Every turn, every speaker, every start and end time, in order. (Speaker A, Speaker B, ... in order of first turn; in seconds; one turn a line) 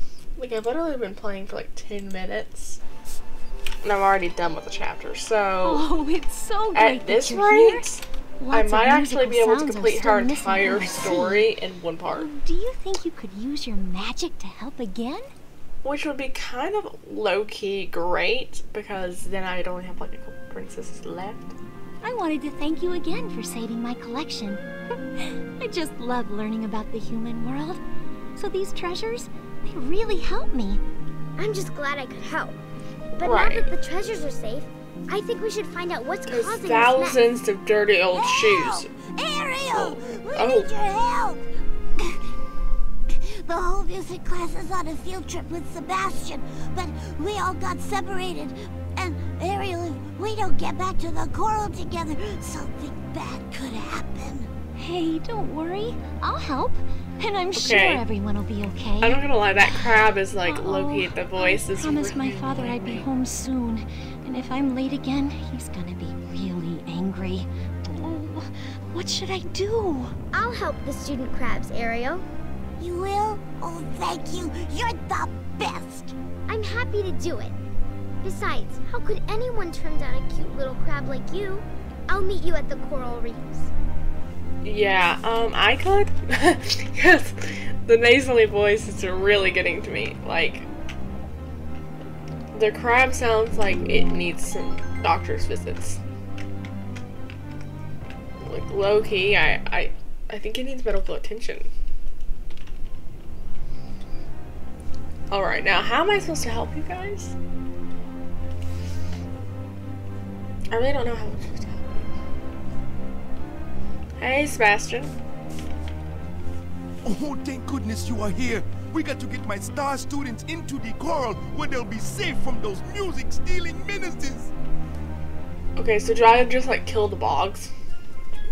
Speaker A: 0.4-2.8
Speaker A: 3.8-5.8
Speaker B: 5.6-7.9
Speaker A: 6.7-12.3
Speaker B: 8.4-11.5
Speaker B: 12.1-15.3
Speaker A: 15.8-21.5
Speaker B: 22.0-24.6
Speaker B: 25.2-27.8
Speaker B: 28.4-30.8
Speaker C: 31.4-32.6
Speaker A: 33.2-33.7
Speaker C: 33.2-37.2
Speaker A: 36.3-38.9
Speaker D: 38.1-42.2
Speaker A: 39.7-40.7
Speaker D: 43.1-54.5
Speaker B: 54.8-59.9
Speaker A: 57.5-58.0
Speaker A: 59.0-63.0
Speaker B: 60.5-70.1
Speaker C: 70.3-72.2
Speaker D: 72.8-76.1
Speaker C: 76.5-77.5
Speaker C: 78.2-83.7
Speaker A: 84.6-90.7
Speaker A: 92.5-96.0
Speaker A: 98.4-101.7
Speaker A: 105.3-107.3
Speaker A: 110.7-112.1
Speaker A: 114.2-115.1
Speaker E: 117.0-124.5
Speaker A: 125.8-127.7